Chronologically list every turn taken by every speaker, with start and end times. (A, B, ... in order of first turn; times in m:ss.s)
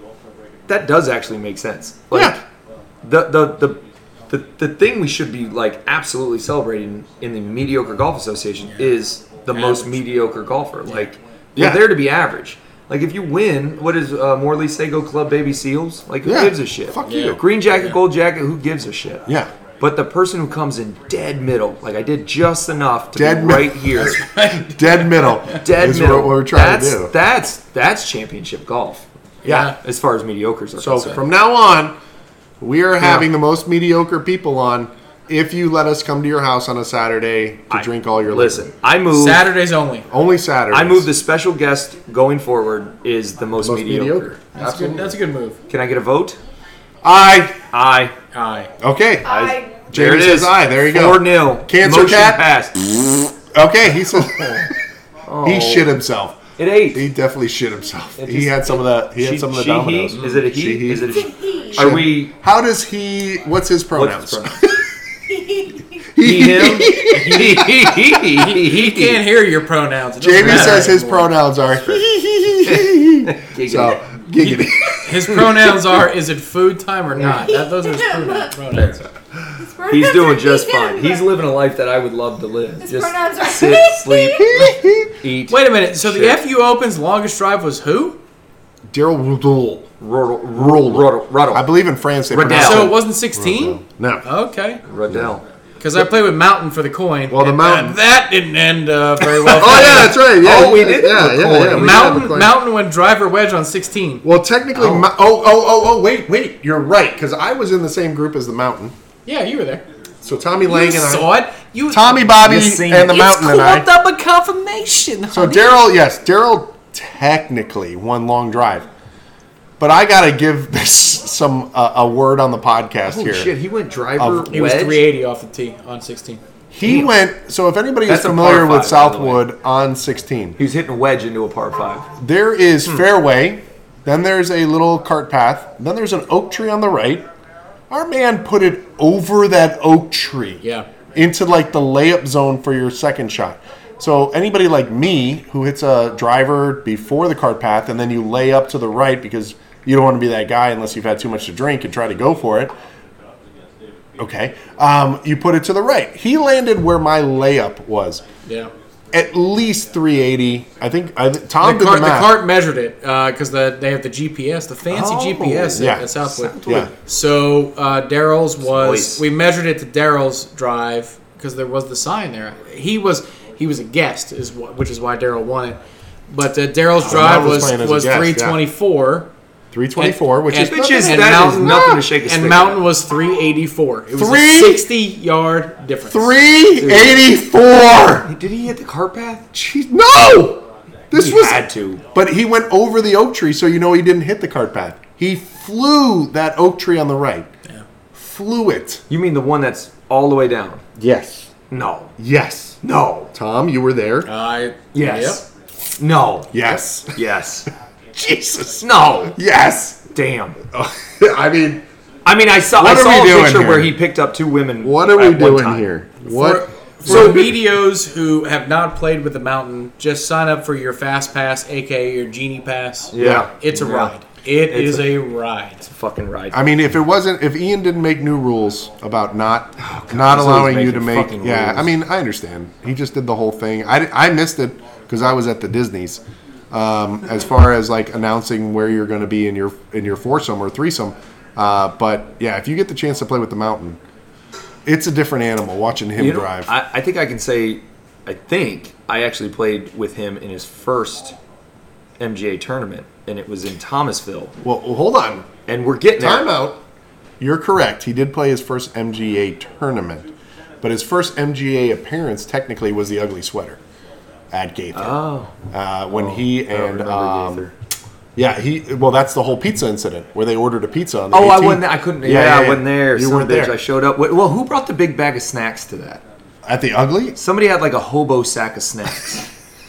0:00.7-0:02.4 A
0:02.1-0:02.4 B
0:03.0-0:19.3 A
0:09.5-0:09.9 C
0:11.6-0:11.9 B
0:16.2-0:17.4 B
0:17.0-0:17.9 C
0:19.8-0:24.2 A
0:23.1-0:23.8 B
0:23.9-0:25.6 C
0:24.7-0:27.1 B
0:25.6-0:31.2 A
0:29.4-0:29.7 B
0:29.4-0:29.7 C
0:30.8-0:31.9 B
0:32.6-0:38.7 B
0:37.7-0:39.4 A
0:39.1-0:40.1 C
0:40.1-0:41.1 B
0:40.7-0:44.8 A
0:43.6-0:45.1 B
0:44.5-0:45.6 C
0:45.7-0:46.4 A
0:47.0-0:47.6 B
0:47.7-0:48.2 A
0:48.3-0:48.7 C
0:48.8-0:49.4 B
0:49.2-0:49.8 D
0:49.2-0:52.8 A
0:49.9-0:54.7 B
0:55.2-0:55.9 A
0:55.4-0:56.4 B
0:56.6-0:57.0 A
0:56.9-1:01.2 B
0:58.2-1:02.3 A
1:01.1-1:01.9 D
1:01.7-1:04.9 B
1:03.9-1:04.6 A
1:06.1-1:08.1 B
1:06.2-1:09.2 A
1:07.1-1:07.7 C
1:08.3-1:11.3 C
1:10.2-1:15.8 B
1:10.4-1:10.9 A
1:11.7-1:12.0 A
1:12.6-1:14.0 A
1:14.4-1:19.0 C
1:17.2-1:18.5 D
1:19.5-1:21.3 D
1:19.9-1:24.7 A
1:22.8-1:24.7 D
1:24.4-1:25.2 B
1:25.2-1:26.4 A
1:25.5-1:28.2 C
1:28.9-1:29.9 B
1:30.0-1:31.7 A
1:30.5-1:34.2 B
1:32.3-1:32.9 A
1:32.4-1:34.8 C
1:34.8-1:35.4 A
1:35.8-1:40.2 C
1:37.3-1:38.0 B
1:39.4-1:42.6 B
1:39.5-1:42.2 A
1:41.6-1:44.2 C
1:44.2-1:48.9 B
1:44.8-1:45.0 A
1:49.2-1:49.8 C
1:50.2-1:51.3 B
1:50.6-1:55.8 C
1:51.9-1:53.9 B
1:52.4-1:53.2 A
1:55.3-1:58.9 B
1:59.8-2:03.5 B
2:03.0-2:05.0 A
2:04.2-2:04.5 B
2:04.5-2:06.4 C
2:06.7-2:10.6 B
2:06.8-2:07.1 A
2:08.0-2:09.4 A
2:10.6-2:12.1 A
2:12.2-2:17.2 B
2:17.9-2:32.7 B
2:20.6-2:20.9 C
2:34.2-2:38.2 B
2:38.4-2:38.7 C
2:39.1-2:42.4 B
2:41.6-2:59.3 C
2:44.9-2:46.9 A
2:45.7-2:46.1 B
2:46.6-2:46.9 B
2:48.6-2:49.2 A
2:57.0-2:58.6 B
2:59.7-3:01.4 B
3:00.0-3:06.3 C
3:00.5-3:02.8 A
3:04.1-3:04.8 B
3:06.1-3:08.3 B
3:06.8-3:07.2 A
3:08.2-3:09.5 A
3:09.5-3:17.5 B
3:11.1-3:12.0 A
3:18.1-3:19.0 B
3:19.1-3:20.8 A
3:21.0-3:21.5 B
3:21.7-3:22.1 A
3:22.2-3:22.8 B
3:22.8-3:23.3 A
3:23.3-3:24.3 B
3:24.2-3:25.4 C
3:24.9-3:26.5 A
3:26.5-3:27.2 B
3:27.1-3:27.7 A
3:28.1-3:30.1 B
3:28.8-3:29.4 A
3:30.1-3:30.6 A
3:30.7-3:31.8 B
3:32.2-3:35.9 A
3:32.8-3:33.9 B
3:34.8-3:37.5 B
3:36.2-3:45.8 C
3:37.0-3:37.5 A
3:43.1-3:44.1 A
3:43.1-3:43.5 B
3:44.6-3:45.1 A
3:45.8-3:46.6 A
3:46.5-4:04.0 B
3:49.8-3:51.9 A
4:04.8-4:06.7 B
4:06.2-4:11.4 A
4:12.2-4:14.5 A
4:14.6-4:15.5 B
4:15.7-4:16.5 A
4:16.2-4:16.8 B
4:17.4-4:20.3 B
4:20.8-4:23.8 B
4:24.5-4:27.7 B
4:24.9-4:25.5 A
4:26.1-4:27.7 A
4:28.4-4:33.7 B
4:31.3-4:36.2 A
4:36.6-4:37.4 B
4:37.4-4:39.5 A